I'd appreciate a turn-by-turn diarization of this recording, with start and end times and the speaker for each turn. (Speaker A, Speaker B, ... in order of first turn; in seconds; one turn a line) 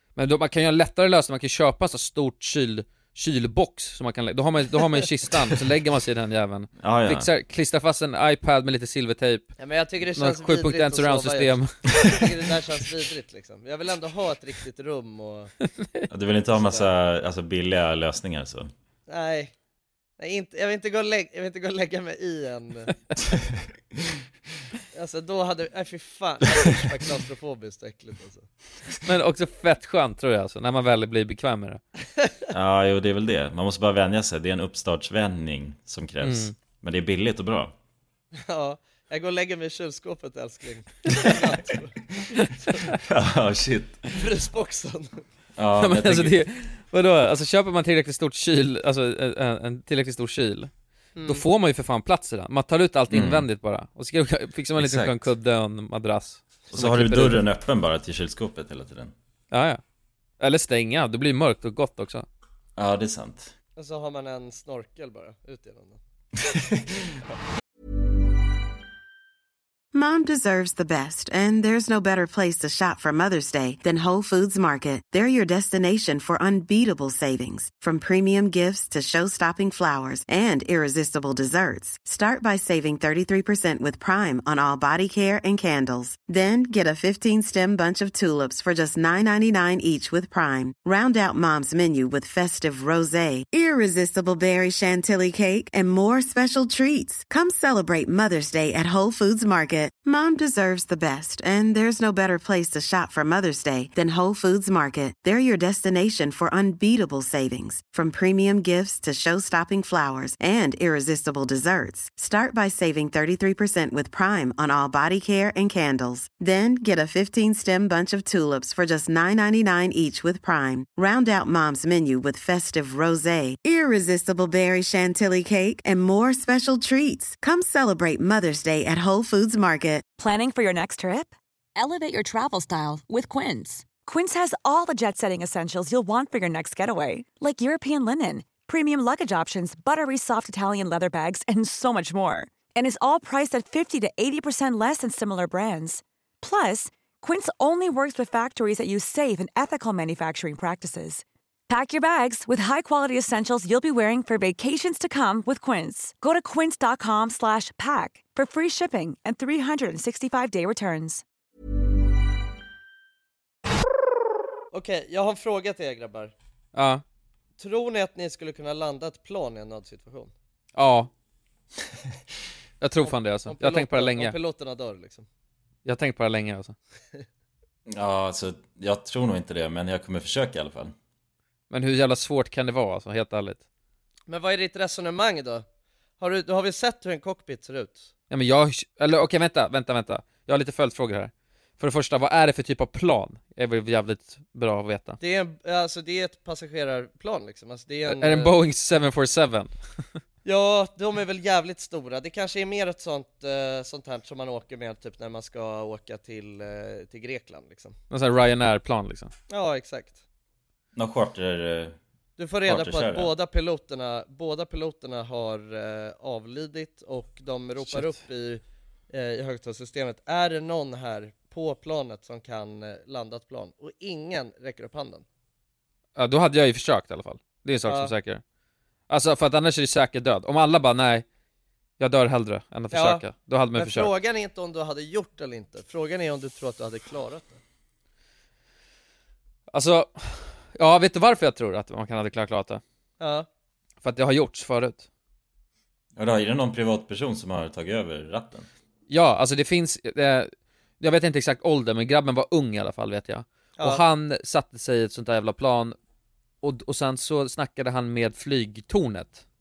Speaker A: 0.1-9.5
Speaker B: 6.8-7.3
Speaker C: 9.6-15.5
Speaker A: 10.2-11.8
Speaker A: 15.8-16.1
Speaker B: 16.1-18.7
Speaker C: 16.5-16.9
Speaker C: 19.1-19.5
Speaker C: 20.2-22.9
Speaker C: 24.9-28.5
Speaker A: 29.0-31.8
Speaker B: 32.5-37.7
Speaker A: 36.2-36.5
Speaker C: 38.3-42.0
Speaker B: 43.0-44.0
Speaker C: 44.1-45.2
Speaker B: 45.6-46.4
Speaker A: 45.8-50.7
Speaker C: 51.1-51.5
Speaker A: 51.2-57.4
Speaker B: 53.1-53.5
Speaker B: 54.8-55.2
Speaker B: 56.7-59.1
Speaker A: 59.5-59.8
Speaker A: 60.4-62.3
Speaker B: 62.8-63.5
Speaker C: 63.8-66.0
Speaker B: 66.5-66.9
Speaker D: 69.9-130.0
Speaker E: 130.2-161.2
Speaker C: 164.7-166.3
Speaker A: 166.7-167.0
Speaker C: 167.6-170.3
Speaker A: 170.7-171.1
Speaker A: 172.8-174.3
Speaker C: 173.0-175.2
Speaker A: 175.8-176.7
Speaker B: 177.9-180.9
Speaker A: 181.7-183.6
Speaker C: 184.3-185.6
Speaker C: 186.2-188.1
Speaker A: 188.3-195.2
Speaker C: 195.2-198.6
Speaker A: 198.1-199.7
Speaker C: 200.4-208.0
Speaker A: 208.1-209.3
Speaker C: 209.5-210.2
Speaker B: 210.9-211.9
Speaker C: 212.4-225.2
Speaker B: 212.7-213.3
Speaker A: 217.9-218.1
Speaker A: 226.2-228.4
Speaker C: 227.9-228.1
Speaker A: 229.1-231.2
Speaker A: 232.0-234.1
Speaker C: 232.9-237.6
Speaker A: 239.7-242.8
Speaker C: 243.2-243.5
Speaker A: 244.0-245.1
Speaker B: 246.2-248.7
Speaker A: 249.1-255.9
Speaker C: 253.8-254.0
Speaker A: 256.6-259.4